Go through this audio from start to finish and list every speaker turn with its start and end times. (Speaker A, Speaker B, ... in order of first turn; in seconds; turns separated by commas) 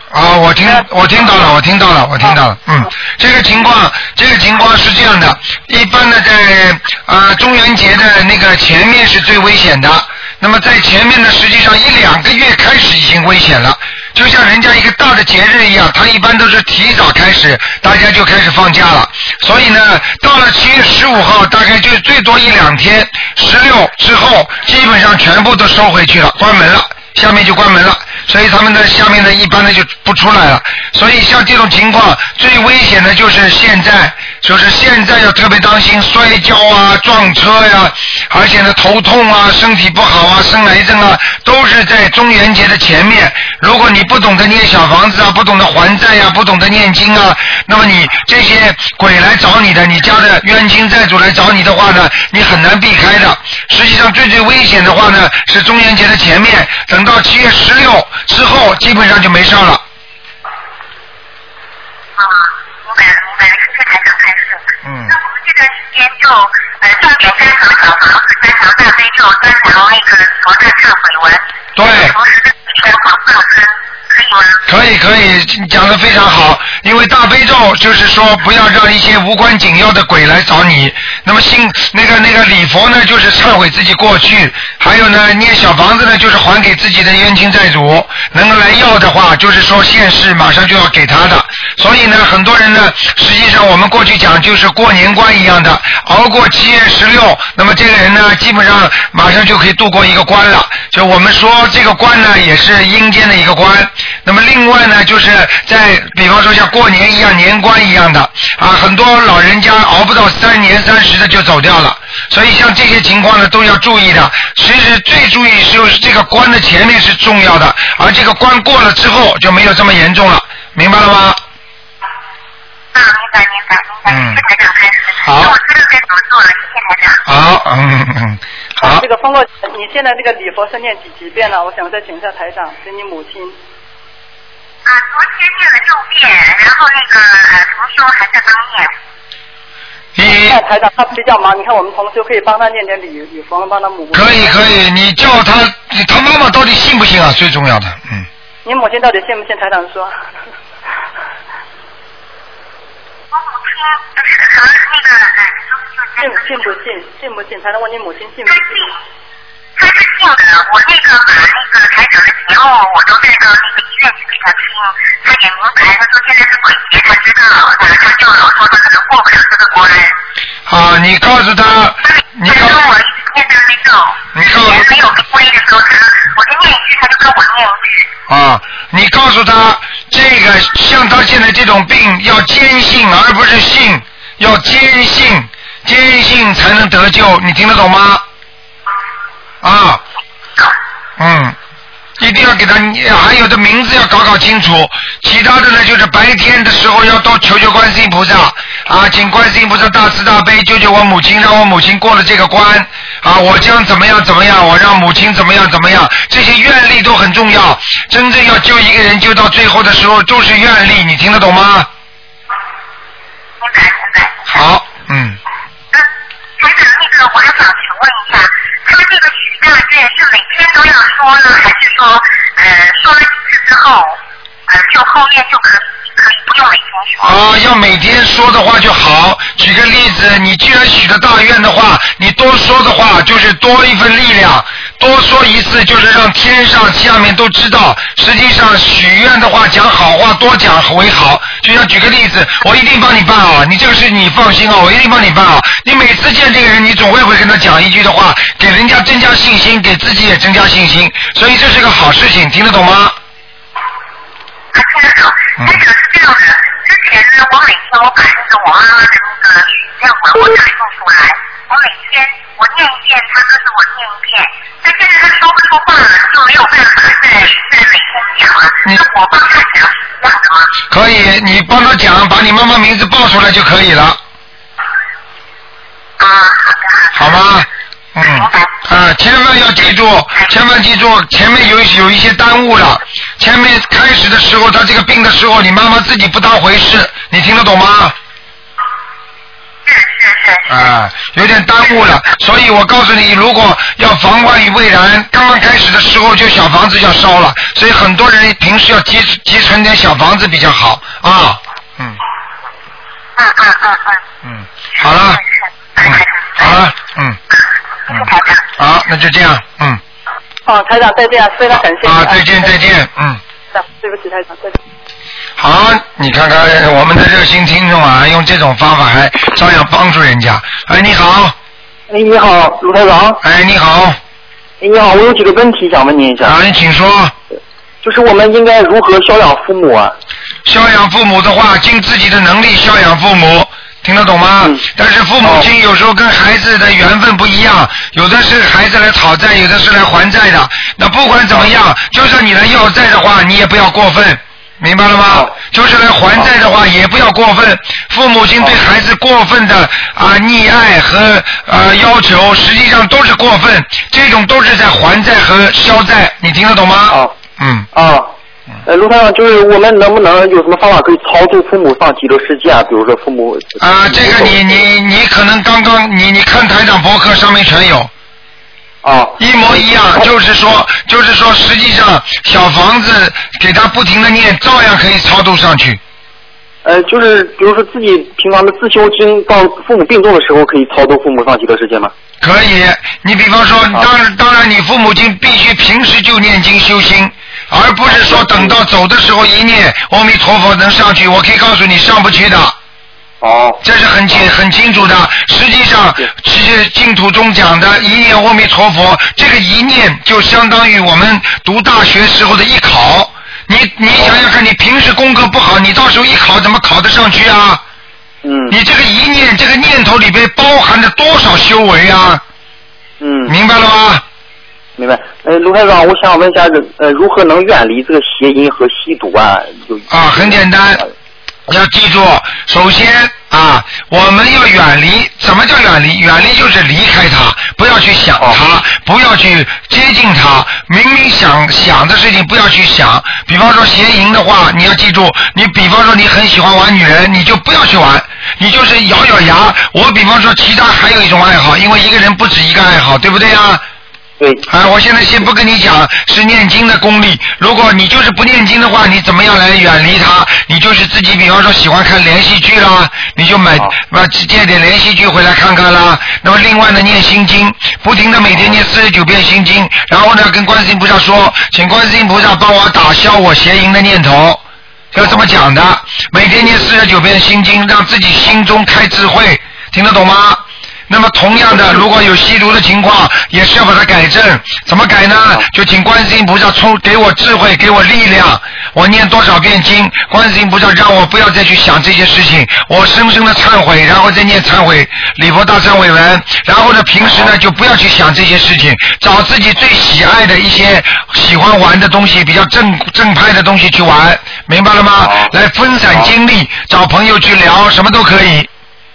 Speaker A: 0.1-59.8, Speaker B: 62.2-74.7, Speaker A: 64.8-65.2, Speaker A: 71.8-72.2, Speaker A: 74.7-121.4, Speaker B: 122.9-127.2, Speaker A: 124.1-124.4, Speaker A: 125.2-125.5, Speaker A: 127.3-129.0, Speaker C: 128.8-133.6, Speaker B: 134.9-138.9, Speaker A: 140.2-140.6, Speaker C: 140.3-144.7, Speaker A: 144.1-148.3, Speaker C: 148.7-150.1, Speaker B: 153.3-156.4, Speaker C: 156.2-158.7, Speaker B: 158.5-158.9, Speaker B: 159.8-170.2, Speaker A: 170.7-172.8, Speaker B: 172.0-178.1, Speaker A: 174.3-174.9, Speaker A: 178.3-188.2, Speaker A: 189.6-190.0, Speaker A: 191.2-191.6, Speaker A: 192.2-211.9, Speaker B: 213.6-214.6, Speaker A: 214.5-215.4, Speaker B: 215.9-227.4, Speaker A: 227.2-253.2, Speaker B: 254.7-270.7, Speaker A: 270.9-274.2, Speaker B: 276.2-277.4, Speaker A: 277.1-288.1, Speaker B: 278.2-278.7, Speaker B: 289.9-290.7, Speaker A: 290.7-302.2, Speaker B: 303.4-304.2, Speaker A: 304.4-305.4, Speaker B: 305.9-306.8, Speaker A: 306.0-307.4, Speaker B: 308.1-308.6, Speaker A: 308.8-310.0, Speaker C: 310.7-312.7, Speaker A: 312.0-313.4, Speaker C: 313.7-314.8, Speaker A: 315.6-321.5, Speaker D: 322.1-323.4, Speaker A: 323.4-324.2, Speaker D: 324.8-326.6, Speaker A: 326.4-327.3, Speaker D: 328.0-330.1, Speaker A: 330.6-357.9, Speaker D: 335.4-335.7, Speaker D: 357.9-358.3, Speaker D: 358.9-364.8, Speaker A: 363.8-368.1, Speaker D: 369.0-370.3, Speaker A: 369.4-376.0, Speaker D: 376.8-382.1, Speaker A: 382.4-392.8, Speaker D: 388.1-388.8, Speaker D: 393.4-393.8, Speaker A: 393.8-407.8, Speaker D: 408.4-408.8, Speaker A: 408.7-412.4, Speaker D: 413.2-413.6, Speaker A: 413.5-414.2, Speaker D: 415.0-421.1, Speaker A: 420.1-421.0, Speaker A: 421.7-443.8, Speaker D: 444.4-444.6, Speaker A: 444.7-464.6, Speaker A: 465.1-498.7, Speaker D: 465.2-465.4, Speaker D: 487.2-487.5, Speaker D: 495.2-495.5